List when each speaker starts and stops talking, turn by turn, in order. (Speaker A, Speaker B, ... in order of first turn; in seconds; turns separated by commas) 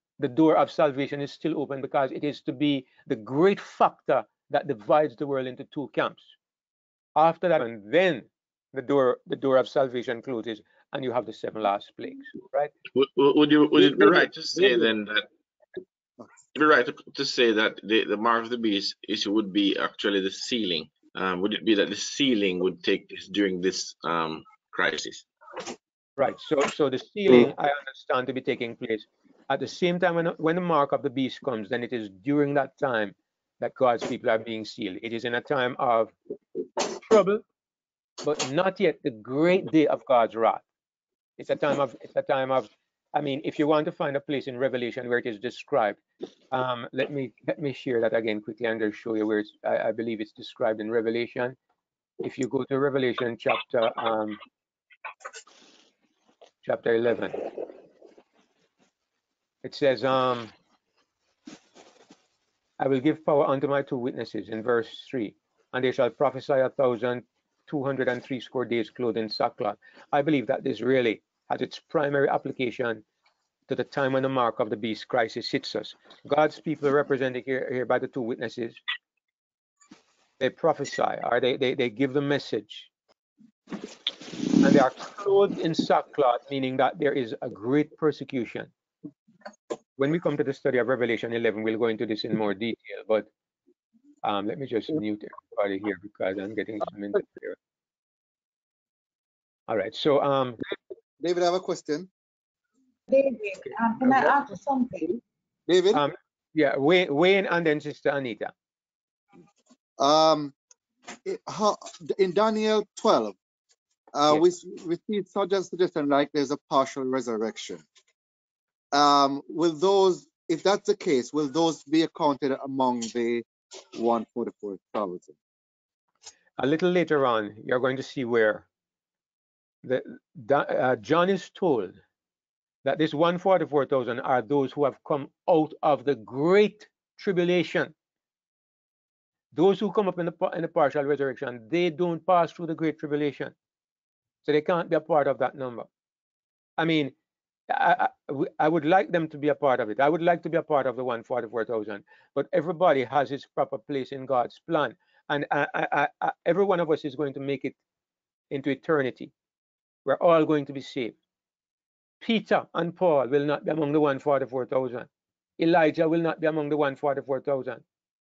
Speaker A: 0.2-6.3, Speaker A: 7.2-12.7, Speaker B: 12.9-15.3, Speaker A: 13.8-14.9, Speaker B: 16.6-25.3, Speaker A: 26.2-36.1, Speaker A: 36.9-37.4, Speaker A: 38.2-40.6, Speaker A: 41.4-51.6, Speaker A: 52.2-54.4, Speaker A: 56.6-57.4, Speaker A: 59.6-60.5, Speaker A: 62.8-73.0, Speaker A: 73.7-78.8, Speaker A: 80.4-82.9, Speaker A: 84.6-88.7, Speaker A: 90.0-93.3, Speaker A: 94.2-97.6, Speaker A: 99.7-100.6, Speaker C: 101.2-102.1, Speaker D: 103.1-105.1, Speaker C: 105.7-106.0, Speaker A: 105.9-108.5, Speaker C: 110.0-110.5, Speaker C: 111.2-113.4, Speaker C: 114.1-117.8, Speaker C: 118.9-125.4, Speaker A: 126.6-128.7, Speaker A: 129.8-131.9, Speaker A: 132.8-137.9, Speaker A: 139.5-143.5, Speaker A: 144.4-145.9, Speaker A: 146.8-147.1, Speaker A: 147.7-157.8, Speaker A: 158.5-159.3, Speaker A: 160.1-161.2, Speaker A: 162.2-167.8